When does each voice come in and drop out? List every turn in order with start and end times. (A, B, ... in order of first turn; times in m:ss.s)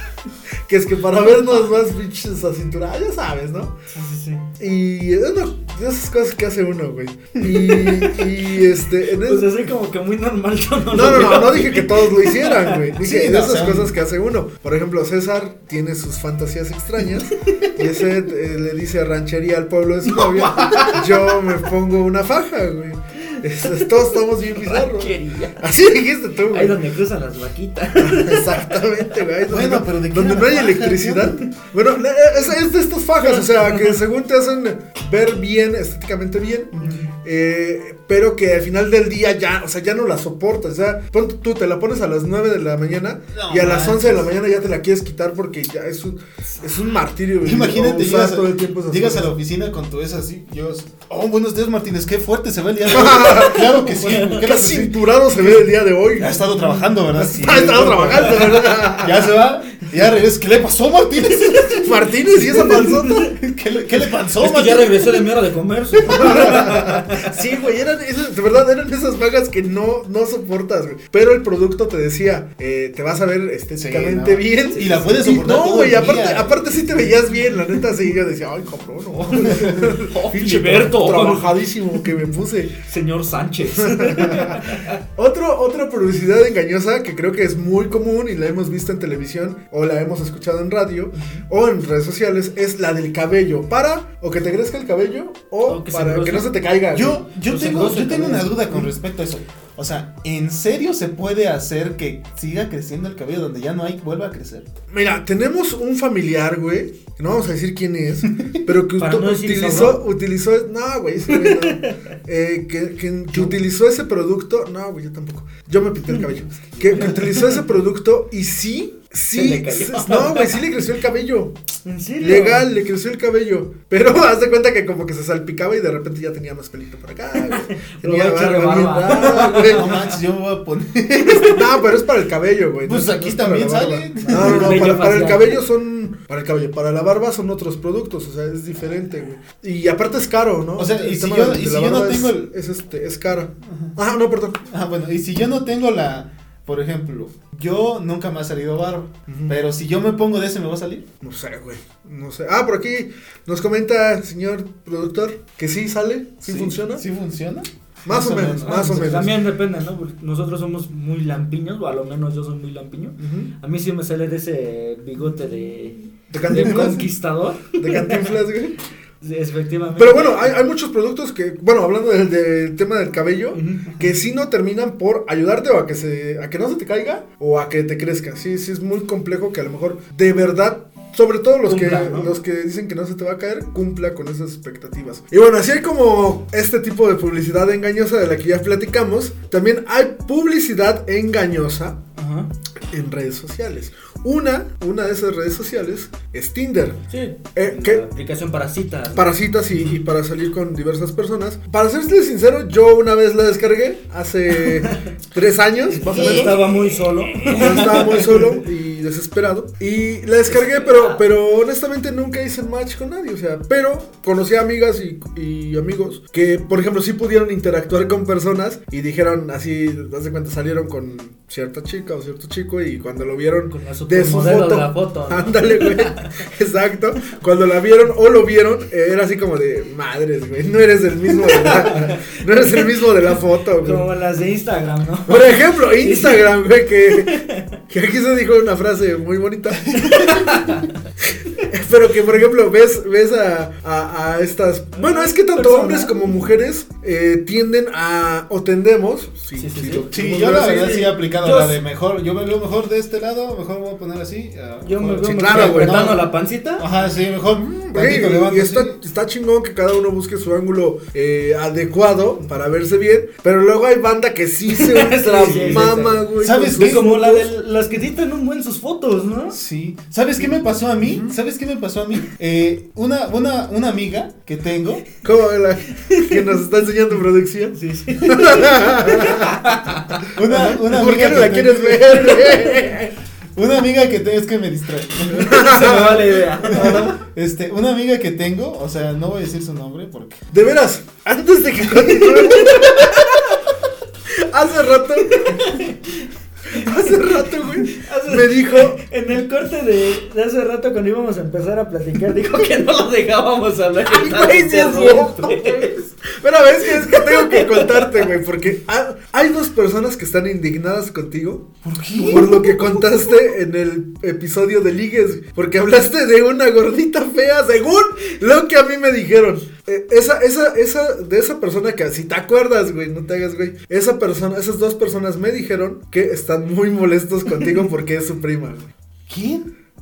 0:00.7-0:03.7 A
0:03.9-0:04.4 B
0:04.6-0:09.5 A
0:07.8-0:08.1 B
0:09.2-0:12.8 B
0:10.9-0:26.8 A
0:13.0-0:13.9 C
0:20.1-0:21.4 B
0:23.6-0:25.6 B
0:26.5-0:29.2 B
0:28.0-0:49.3 A
0:29.5-0:31.4 C
0:33.3-0:34.0 B
0:43.3-0:44.3 C
0:47.4-0:55.7 C
0:52.9-0:56.4 A
0:54.0-0:54.4 B
0:56.2-1:01.9 C
0:57.1-0:59.3 A
1:01.4-1:01.8 B
1:01.8-1:03.3 A
1:02.5-1:05.2 C
1:02.6-1:03.3 B
1:04.4-1:07.3 B
1:06.0-1:22.7 A
1:06.0-1:06.8 C
1:13.7-1:16.6 C
1:14.7-1:15.0 B
1:19.3-1:22.2 B
1:22.8-1:25.0 B
1:23.7-1:37.2 A
1:31.2-1:31.4 B
1:35.6-1:36.5 B
1:36.9-1:44.6 C
1:37.4-1:38.8 B
1:44.9-2:01.5 A
1:49.0-1:50.0 B
1:51.3-1:52.0 B
1:56.8-1:57.3 C
1:56.9-1:57.6 B
1:59.3-2:00.6 B
2:01.8-2:02.7 B
2:02.2-2:09.9 A
2:07.4-2:10.2 B
2:09.1-2:11.6 C
2:11.2-2:11.6 B
2:11.4-2:24.6 A
2:12.8-2:15.0 C
2:14.2-2:15.6 B
2:20.8-2:22.5 C
2:23.6-2:24.0 C
2:24.6-2:31.0 C
2:29.3-2:29.6 A
2:31.2-2:37.0 A
2:36.4-2:39.3 C
2:38.0-2:39.4 A
2:38.6-2:48.4 B
2:43.2-2:43.5 A
2:46.3-2:47.1 A
2:46.5-2:47.0 C
2:47.7-2:48.8 A
2:49.2-2:50.5 B
2:50.0-3:12.0 A
2:53.5-2:54.0 B
3:01.6-3:02.4 B
3:12.2-3:12.5 B
3:12.9-3:17.0 A
3:17.1-3:19.3 B
3:17.5-3:18.0 A
3:19.1-3:26.7 A
3:24.7-3:24.9 B
3:25.9-3:28.6 B
3:26.1-3:26.7 C
3:27.3-3:27.7 C
3:27.5-3:54.1 A
3:30.5-3:31.2 B
3:43.7-3:46.4 B
3:51.5-3:52.9 B
3:53.8-3:56.6 B
3:55.3-3:57.4 A
3:57.2-3:57.6 B
3:57.9-4:00.2 A
4:00.0-4:00.9 B
4:01.6-4:11.1 A
4:04.9-4:06.3 B
4:09.6-4:10.1 B
4:10.1-4:16.2 C
4:11.2-4:11.8 B
4:14.8-4:16.8 B
4:15.3-4:16.2 A
4:16.8-4:19.0 C
4:17.8-4:27.4 A
4:24.6-4:29.6 B
4:25.4-4:27.4 C
4:29.5-4:35.0 C
4:31.0-4:31.3 A
4:35.2-4:39.6 A
4:36.0-4:36.6 B
4:37.7-4:40.2 B
4:40.4-4:42.7 C
4:40.4-4:43.1 A
4:43.6-4:50.4 C
4:45.3-4:47.2 A
4:45.4-4:47.1 B
4:50.5-4:53.1 A
4:52.0-4:53.4 B
4:54.4-4:55.6 A
4:55.2-5:06.0 B
4:56.7-4:59.0 A
5:04.0-5:28.9 A
5:06.8-5:08.3 B
5:11.8-5:12.6 C
5:12.2-5:13.0 B
5:29.3-5:29.6 C